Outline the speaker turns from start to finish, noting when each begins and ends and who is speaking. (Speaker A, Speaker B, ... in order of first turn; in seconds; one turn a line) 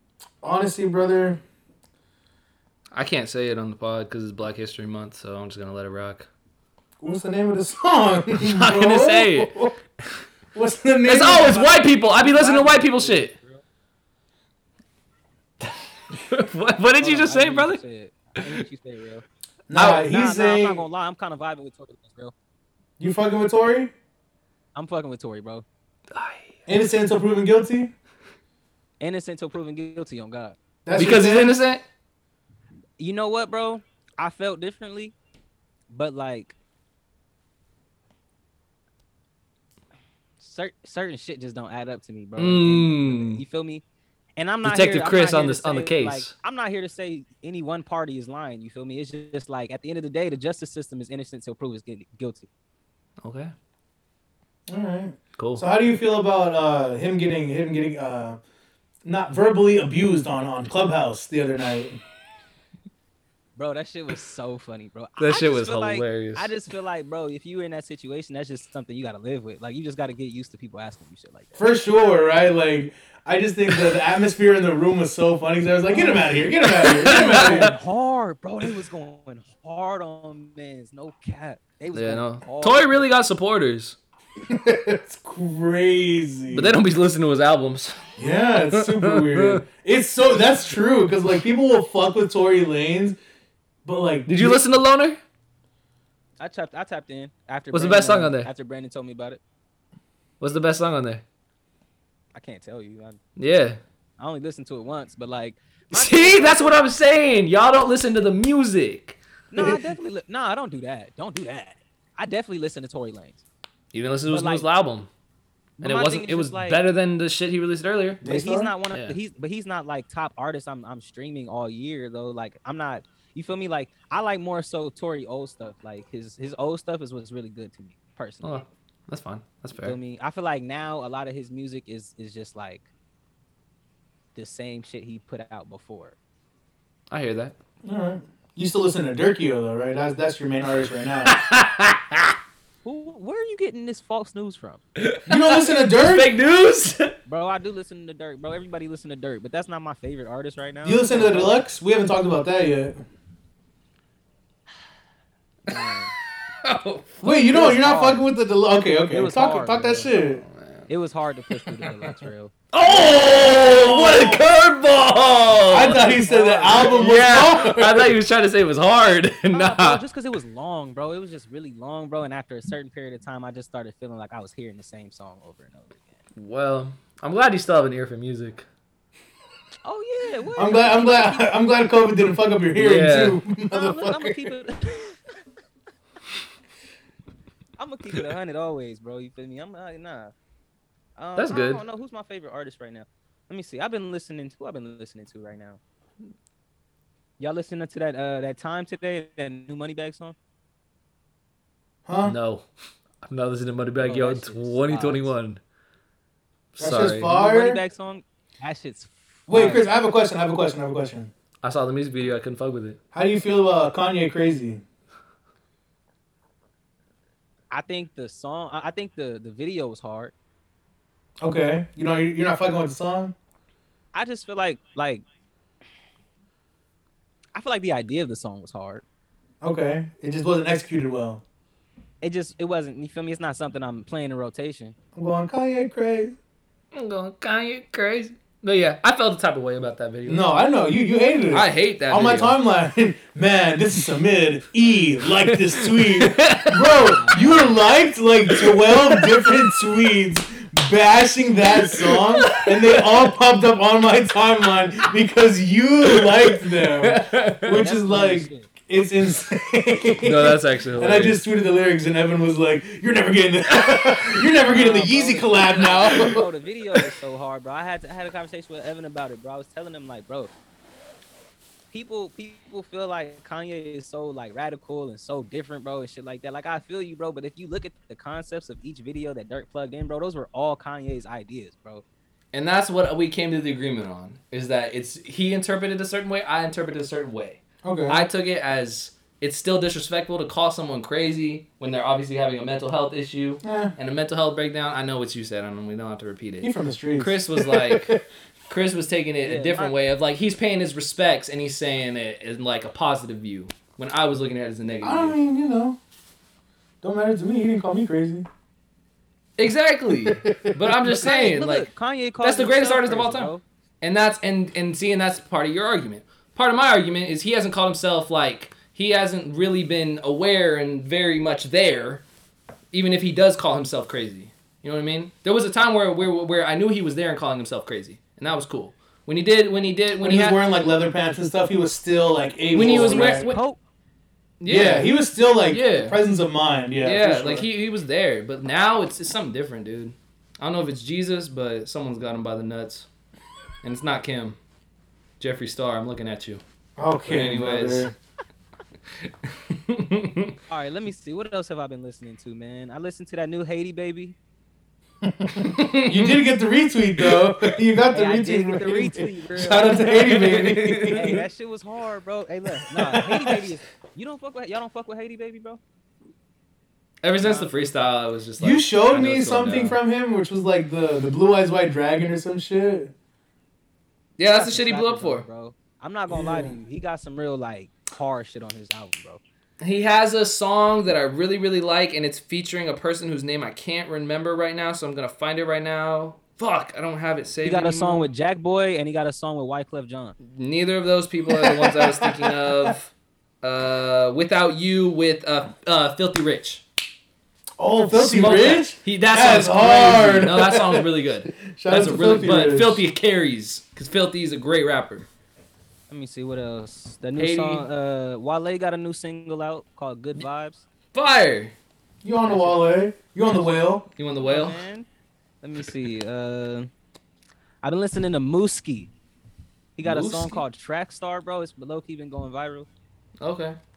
Speaker A: 0.4-1.4
Speaker B: 2.9-6.3
Speaker A: 7.0-9.8
Speaker B: 8.4-9.5
Speaker A: 10.5-11.6
Speaker B: 11.0-13.3
Speaker C: 11.3-13.6
Speaker B: 15.6-17.8
Speaker C: 17.0-19.2
Speaker A: 19.7-20.9
Speaker C: 19.8-22.3
Speaker A: 23.0-23.9
Speaker C: 24.7-25.6
Speaker B: 26.1-26.5
Speaker A: 26.6-27.9
Speaker C: 29.0-30.6
Speaker A: 30.8-31.5
Speaker B: 30.9-31.8
Speaker C: 33.0-35.1
Speaker C: 35.9-36.5
Speaker C: 40.4-43.8
Speaker B: 42.4-43.4
Speaker C: 44.4-52.5
Speaker B: 44.6-46.3
Speaker B: 53.2-53.5
Speaker A: 54.7-58.4
Speaker B: 55.4-55.6
Speaker A: 59.0-62.0
Speaker C: 63.5-71.6
Speaker B: 65.2-66.5
Speaker A: 71.5-77.8
Speaker C: 75.9-83.1
Speaker B: 76.8-77.7
Speaker B: 81.9-84.0
Speaker A: 84.5-86.8
Speaker B: 86.5-88.0
Speaker A: 88.2-93.2
Speaker B: 88.7-89.6
Speaker A: 93.8-94.6
Speaker B: 94.2-95.2
Speaker C: 96.4-99.4
Speaker B: 97.7-98.5
Speaker B: 100.4-101.2
Speaker C: 102.3-103.2
Speaker B: 103.4-103.8
Speaker C: 104.2-106.8
Speaker B: 105.9-109.2
Speaker C: 109.5-113.4
Speaker B: 113.9-115.1
Speaker C: 114.3-114.7
Speaker C: 115.8-116.8
Speaker B: 115.8-118.2
Speaker A: 118.2-118.7
Speaker C: 118.2-128.5
Speaker B: 118.9-119.2
Speaker B: 128.4-130.0
Speaker C: 129.8-132.9
Speaker C: 134.3-136.2
Speaker B: 137.1-137.5
Speaker A: 137.8-141.4
Speaker B: 141.2-142.3
Speaker C: 142.8-144.8
Speaker B: 145.0-147.2
Speaker A: 145.2-146.3
Speaker C: 147.2-151.6
Speaker A: 150.8-153.0
Speaker C: 155.7-156.1
Speaker B: 156.6-157.1
Speaker A: 157.2-160.4
Speaker C: 157.4-158.2
Speaker C: 159.1-160.1
Speaker B: 160.4-160.9
Speaker C: 160.9-162.5
Speaker B: 161.7-162.1
Speaker B: 162.7-166.1
Speaker A: 163.7-164.4
Speaker A: 165.7-168.1
Speaker C: 165.9-167.1
Speaker B: 166.8-170.0
Speaker C: 169.5-176.2
Speaker B: 176.3-178.7
Speaker C: 179.8-181.6
Speaker A: 180.6-184.5
Speaker B: 182.8-183.4
Speaker C: 183.7-185.3
Speaker C: 187.8-190.3
Speaker C: 191.2-195.8
Speaker B: 191.3-191.8
Speaker C: 197.4-200.3
Speaker A: 202.1-202.3
Speaker B: 202.2-202.7
Speaker B: 203.2-205.6
Speaker C: 204.0-205.3
Speaker B: 206.8-207.3
Speaker A: 206.8-207.8
Speaker C: 207.2-209.8
Speaker A: 209.5-211.3
Speaker B: 211.6-213.0
Speaker A: 213.1-214.8
Speaker C: 217.7-220.3
Speaker A: 221.4-223.3
Speaker C: 224.1-225.2
Speaker C: 227.5-229.0
Speaker A: 229.6-231.4
Speaker C: 232.2-234.9
Speaker A: 235.1-236.3
Speaker B: 236.9-240.5
Speaker A: 240.2-266.4
Speaker B: 241.5-242.6
Speaker B: 245.5-246.8
Speaker C: 247.0-247.7
Speaker B: 248.5-249.3
Speaker B: 251.8-253.0
Speaker B: 257.0-257.8
Speaker C: 257.7-258.7
Speaker B: 260.2-261.4
Speaker C: 264.6-270.5
Speaker C: 271.9-282.0
Speaker B: 282.5-298.1
Speaker A: 287.8-288.2
Speaker A: 293.6-293.9
Speaker A: 296.6-298.2
Speaker B: 298.7-305.4
Speaker C: 299.4-299.9
Speaker A: 305.0-306.0
Speaker A: 307.0-308.5
Speaker B: 309.6-311.9
Speaker A: 310.2-311.0
Speaker C: 311.1-313.6
Speaker B: 312.4-322.2
Speaker B: 322.9-330.6
Speaker A: 330.2-333.4
Speaker B: 332.7-333.6
Speaker C: 332.8-333.8
Speaker B: 334.6-335.1
Speaker A: 334.6-337.7
Speaker B: 335.7-336.2
Speaker B: 337.0-343.1
Speaker B: 343.8-344.6
Speaker B: 345.4-346.6
Speaker A: 347.0-348.1
Speaker B: 347.3-348.1
Speaker B: 349.7-350.5
Speaker C: 350.7-354.4
Speaker A: 355.2-361.4
Speaker B: 355.6-356.4
Speaker B: 357.2-357.6
Speaker C: 358.1-360.3
Speaker B: 360.0-361.2
Speaker C: 361.1-365.8
Speaker A: 362.9-363.6
Speaker B: 367.2-370.0
Speaker C: 367.4-367.7
Speaker A: 368.6-373.1
Speaker B: 374.4-375.4
Speaker C: 374.4-379.4
Speaker A: 376.3-376.7
Speaker B: 379.8-388.3
Speaker C: 387.6-390.4
Speaker B: 390.4-396.8
Speaker A: 391.5-392.9
Speaker A: 397.8-403.0
Speaker B: 398.0-405.2
Speaker C: 406.1-410.8
Speaker B: 407.4-407.9
Speaker B: 411.1-411.7
Speaker A: 412.2-414.0
Speaker C: 412.4-412.8
Speaker B: 414.1-414.8
Speaker C: 414.4-415.1
Speaker C: 415.6-416.9
Speaker C: 417.8-419.1
Speaker C: 420.0-422.9
Speaker B: 420.0-420.6
Speaker B: 423.4-423.8